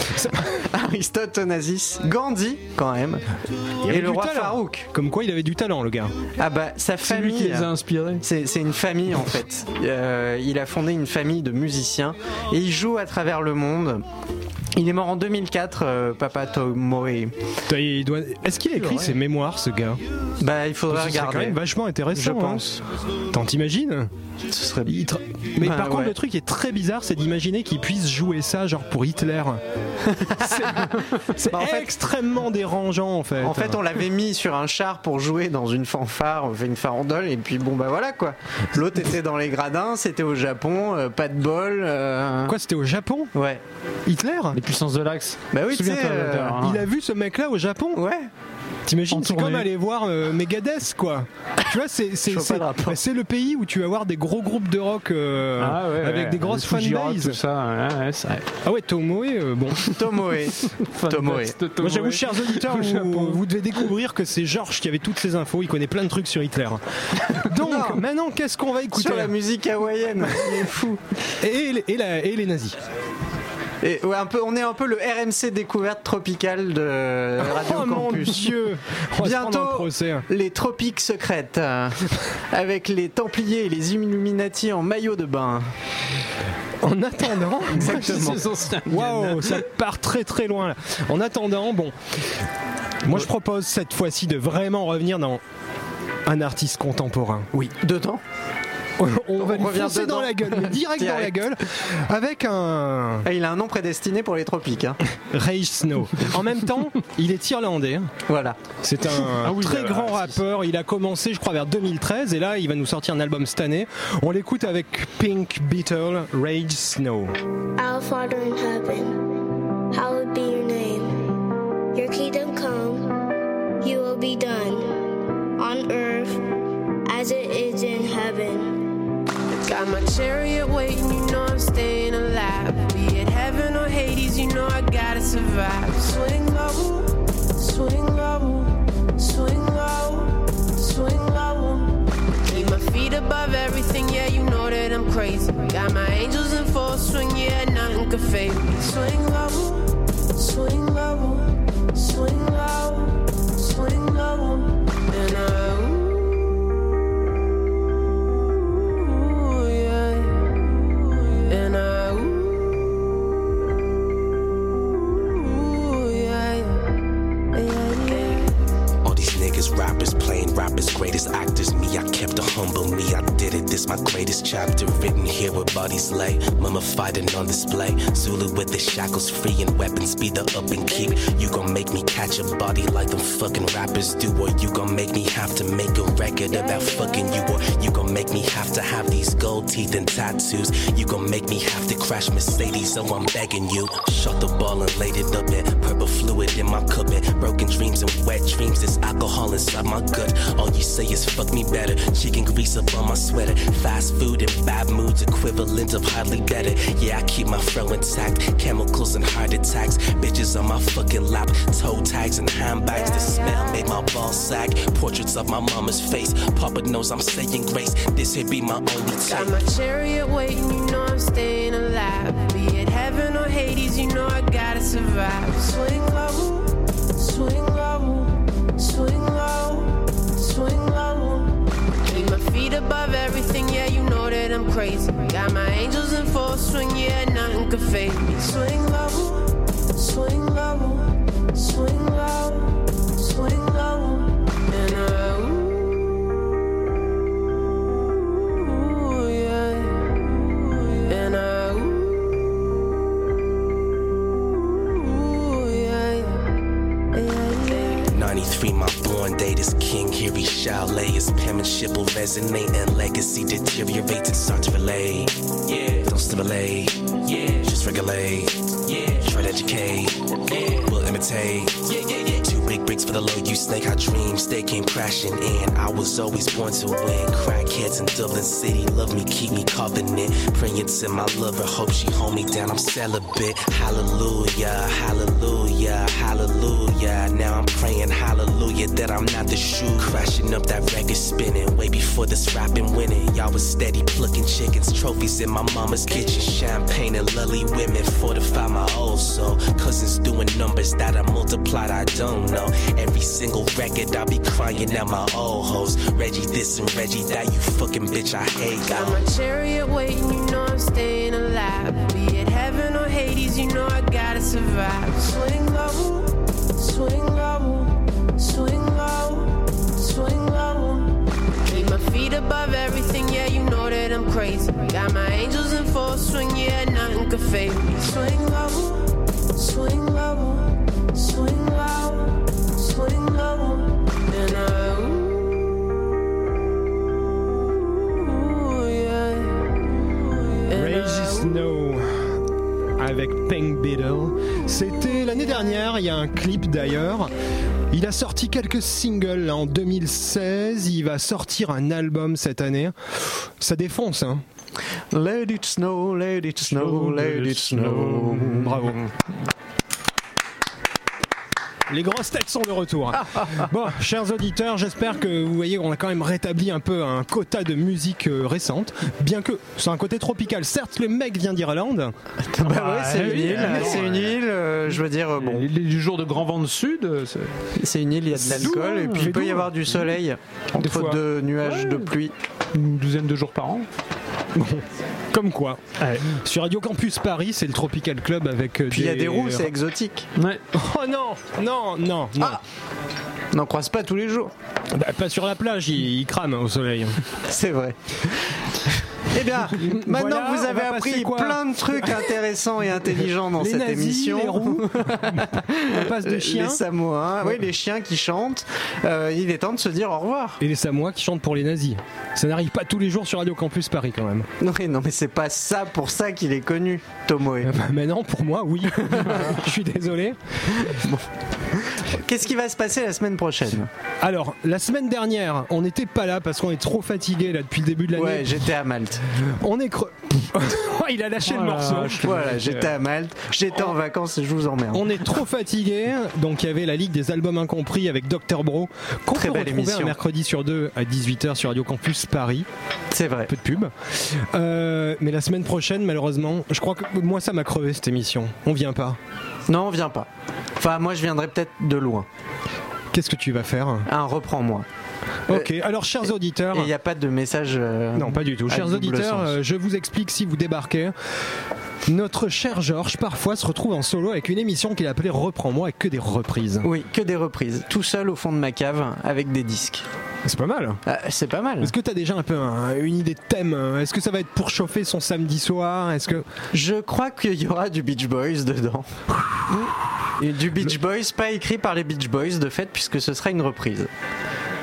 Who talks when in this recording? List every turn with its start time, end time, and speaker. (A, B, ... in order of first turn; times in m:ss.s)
0:00.1-0:00.6 A
0:00.7-0:03.3 B
0:03.8-0:06.1 A
0:03.8-0:04.8 B
0:06.4-0:14.0 B
0:07.0-0:08.2 C
0:14.8-0:17.3 B
0:17.7-0:20.0 A
0:18.8-0:19.1 C
0:20.4-0:21.6 B
0:20.9-0:22.6 A
0:22.1-0:22.8 B
0:23.3-0:24.1 A
0:24.5-0:25.0 B
0:24.8-0:29.6 A
0:25.6-0:26.1 B
0:30.0-0:31.9 B
0:30.4-0:33.8 A
0:33.4-0:42.5 B
0:42.4-0:43.3 A
0:43.3-0:43.6 B
0:44.0-0:44.6 A
0:44.5-0:46.8 C
0:45.5-0:46.6 B
0:46.6-0:48.0 A
0:47.9-0:48.3 B
0:48.8-0:57.4 A
0:49.1-0:49.7 C
0:52.3-0:53.0 B
0:55.6-0:58.4 C
0:58.6-0:59.9 A
0:59.9-1:01.6 B
1:00.9-1:03.4 C
1:01.8-1:06.8 A
1:07.4-1:09.3 A
1:07.5-1:08.0 B
1:08.9-1:11.0 B
1:11.4-1:12.8 A
1:13.8-1:18.5 B
1:17.4-1:20.3 A
1:19.2-1:25.7 B
1:26.8-1:32.0 A
1:27.8-1:29.5 C
1:27.8-1:28.4 B
1:33.0-1:35.4 A
1:36.2-1:37.5 A
1:37.5-1:38.2 B
1:39.0-1:43.2 A
1:39.4-1:41.5 B
1:43.2-1:45.0 B
1:45.3-1:48.1 A
1:48.3-1:48.6 B
1:48.8-1:57.3 A
1:49.4-1:50.4 C
1:57.8-1:59.2 D
1:59.9-2:01.2 D
2:01.9-2:03.1 D
2:03.8-2:04.9 D
2:05.6-2:06.4 D
2:07.1-2:08.8 D
2:09.7-2:36.4 E
2:38.9-2:42.6 E
2:45.2-2:46.8 E
2:47.5-2:48.5 E
2:49.0-3:39.5 F
3:33.0-3:33.7 E
3:39.2-4:06.1 E
4:08.5-4:12.2 E
4:14.9-4:16.4 E
4:17.1-4:18.1 E
4:18.1-5:09.2 F
5:08.8-5:35.6 E
5:38.1-5:39.6 E
5:40.6-5:41.5 E
5:40.7-5:42.4 A
5:43.0-5:47.3 A
5:47.9-5:54.4 A
5:55.1-5:59.1 B
5:56.6-5:58.9 C
6:01.9-6:12.1 A
6:03.2-6:03.6 B
6:12.5-6:15.7 B
6:12.6-6:14.4 C
6:13.5-6:14.0 A
6:15.4-6:17.5 C
6:17.8-6:22.3 B
6:18.3-6:19.5 C
6:19.0-6:19.7 A
6:20.7-6:22.1 C
6:22.7-6:23.9 C
6:24.5-6:29.7 A
6:26.0-6:26.2 C
6:28.9-6:30.3 B
6:30.7-6:32.6 A
6:33.5-6:34.5 B
6:34.9-6:37.2 A
6:37.5-6:38.7 B
6:39.3-6:50.6 B
6:39.7-6:42.3 A
6:43.6-6:46.8 A
6:50.6-6:54.5 A
6:54.6-6:57.7 B
6:57.6-7:01.0 A
6:59.0-6:59.6 B
7:00.8-7:01.2 B
7:01.9-7:03.9 B
7:04.2-7:08.6 A
7:08.1-7:09.2 B
7:09.3-7:12.9 A
7:11.4-7:12.3 C
7:12.2-7:15.1 B
7:14.9-7:22.7 A
7:19.3-7:20.2 B
7:23.1-7:23.5 B
7:23.5-7:29.2 A
7:29.7-7:32.3 B
7:33.1-7:34.1 A
7:34.1-7:34.9 B
7:35.5-7:36.9 A
7:36.7-7:39.6 B
7:38.1-7:41.1 A
7:42.0-7:46.9 A
7:46.8-7:50.0 B
7:50.4-7:51.0 A
7:51.0-7:51.9 B
7:51.8-7:56.5 A
7:56.7-7:59.2 B
8:00.4-8:04.1 B